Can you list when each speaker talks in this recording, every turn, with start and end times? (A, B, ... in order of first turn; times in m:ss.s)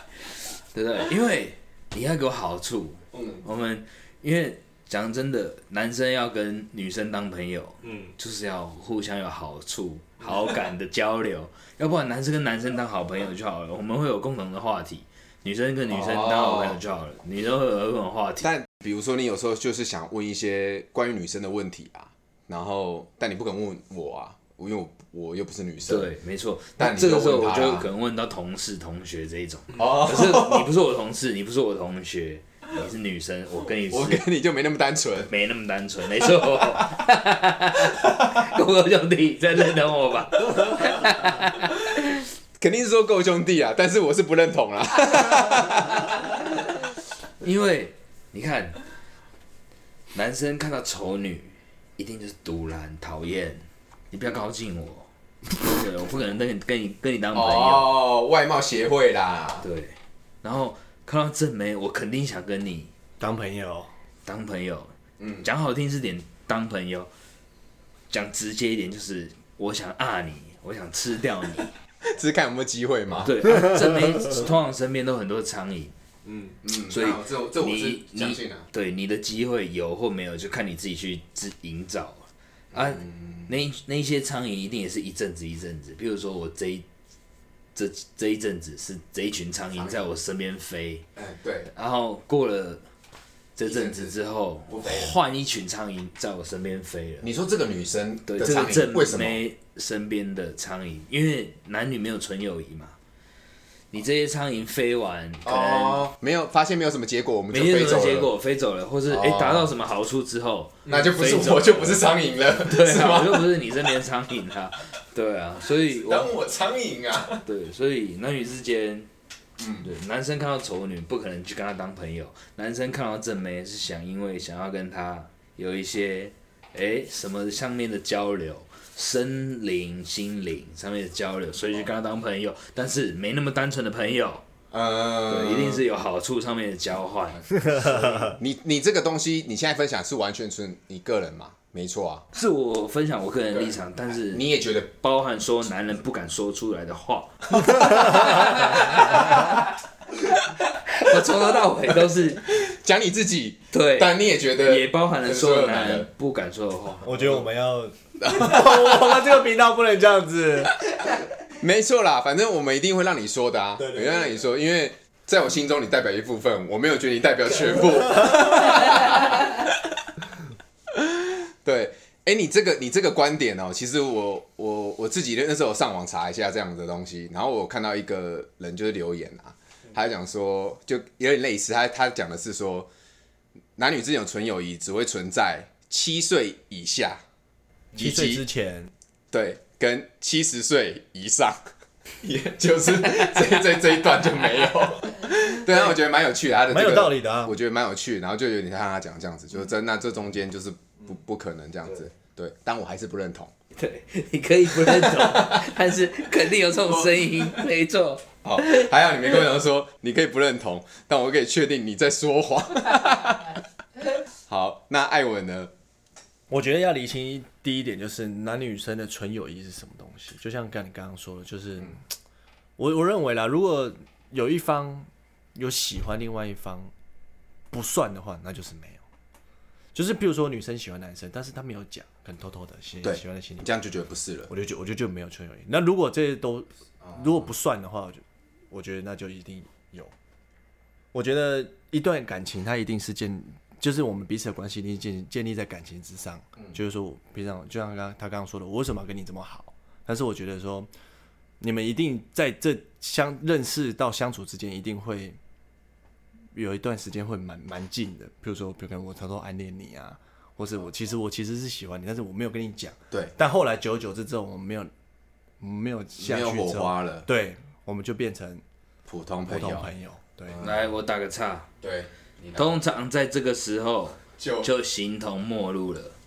0:00.7-0:18.5 A
0:03.1-0:03.4 B
0:15.9-0:16.8 B
0:18.4-0:26.1 B
0:25.9-0:34.2 A
0:26.8-0:27.9 B
0:29.7-0:30.7 B
0:33.9-0:35.3 B
0:35.3-0:42.1 A
0:42.6-0:46.3 B
0:47.4-0:48.8 A
0:50.1-0:57.9 A
0:57.3-0:59.7 B
0:59.6-1:02.9 A
1:03.2-1:03.9 C
1:04.2-1:07.1 A
1:05.2-1:05.4 B
1:08.1-1:11.7 A
1:12.0-1:13.4 B
1:13.2-1:15.9 A
1:16.2-1:16.5 C
1:16.6-1:18.6 B
1:16.9-1:26.8 A
1:22.7-1:23.4 B
1:27.7-1:31.0 A
1:29.8-1:30.0 B
1:31.2-1:31.7 B
1:31.7-1:32.8 A
1:33.6-1:37.3 A
1:33.6-1:34.1 B
1:34.7-1:35.2 B
1:37.2-1:39.4 B
1:38.3-1:43.0 A
1:43.9-1:46.0 A
1:45.4-1:48.3 B
1:47.5-1:56.3 A
1:49.1-1:49.7 B
1:50.9-1:53.9 B
1:55.8-1:57.4 B
1:57.4-1:59.1 A
1:59.6-1:59.9 B
1:59.8-2:14.4 A
2:14.7-2:15.8 B
2:15.3-2:18.4 A
2:17.6-2:18.3 C
2:18.4-2:22.2 B
2:22.3-2:29.7 A
2:23.5-2:24.9 B
2:27.6-2:29.5 B
2:30.9-2:32.4 A
2:32.5-2:36.1 B
2:33.7-2:37.4 A
2:37.0-2:40.7 C
2:38.2-2:39.3 B
2:41.6-2:49.9 B
2:43.8-2:44.2 C
2:50.9-3:02.9 B
3:03.8-3:07.2 B
3:07.9-3:08.4 B
3:07.9-3:08.9 C
3:09.3-3:11.6 B
3:12.2-3:23.5 B
3:16.7-3:17.5 C
3:23.8-3:28.9 A
3:24.7-3:25.7 B
3:28.4-3:33.6 B
3:34.5-3:35.7 B
3:36.5-3:42.0 C
3:42.8-3:46.9 C
3:47.7-3:49.0 C
3:49.9-3:53.7 C
3:53.0-3:54.5 B
3:54.5-4:00.1 C
3:57.0-3:57.4 B
4:01.1-4:10.9 C
4:11.6-4:15.4 C
4:16.5-4:24.9 C
4:25.6-4:28.6 C
4:26.2-4:27.2 B
4:29.1-4:29.9 B
4:29.5-4:30.6 C
4:30.5-4:30.8 B
4:30.6-4:31.7 A
4:31.8-4:32.7 B
4:32.6-4:36.1 A
4:34.4-4:34.7 B